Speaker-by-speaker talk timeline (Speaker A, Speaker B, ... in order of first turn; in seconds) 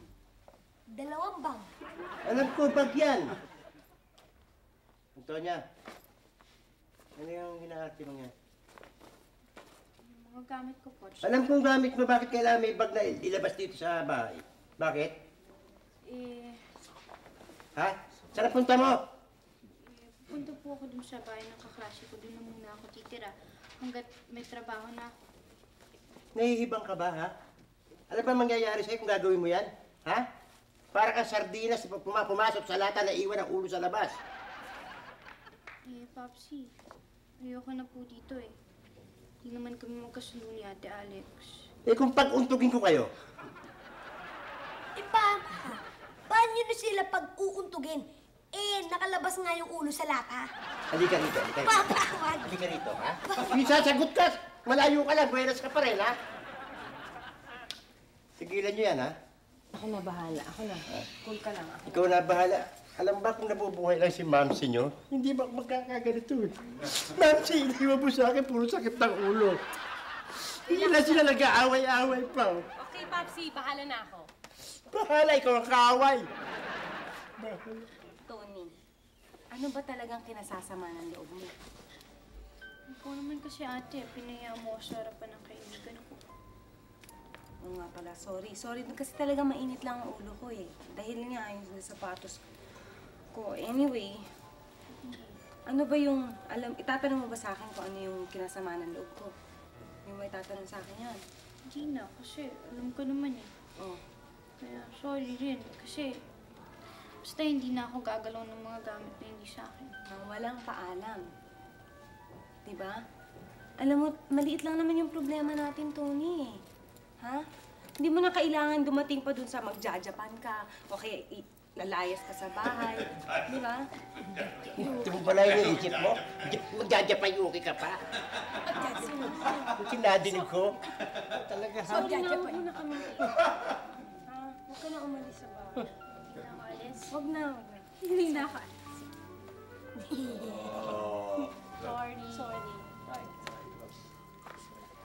Speaker A: 0.9-1.7, 45.0-50.5, 51.6-52.6, 53.3-53.7, 131.5-132.7, 140.3-140.7
Speaker B: 2.2-3.4, 5.2-5.6, 7.2-8.3, 11.2-15.2, 17.8-19.0, 26.4-27.3, 28.1-30.3, 30.9-34.2, 41.9-43.1, 50.9-56.2, 58.4-59.1, 61.9-69.6, 70.5-72.6, 74.9-76.3, 77.4-77.9, 124.7-128.0, 129.7-130.8, 141.0-141.5
Speaker C: 10.0-11.4, 16.1-16.6, 19.7-25.1, 35.9-36.7, 37.4-38.5, 39.4-41.7, 82.9-86.2, 95.0-95.4, 101.7-103.5, 104.6-106.1, 107.2-109.9, 136.3-137.2, 138.0-138.9, 141.8-143.3
Speaker D: 59.7-62.3, 70.7-71.5, 72.8-74.3, 78.3-78.8, 79.5-81.5, 87.6-92.4, 93.3-94.2, 95.7-99.3, 100.0-101.2, 110.1-111.2, 112.7-113.0, 113.8-116.6, 118.0-123.8, 124.6-125.1, 128.7-130.3, 131.8-133.5, 134.1-135.9, 137.1-138.6, 140.1-141.2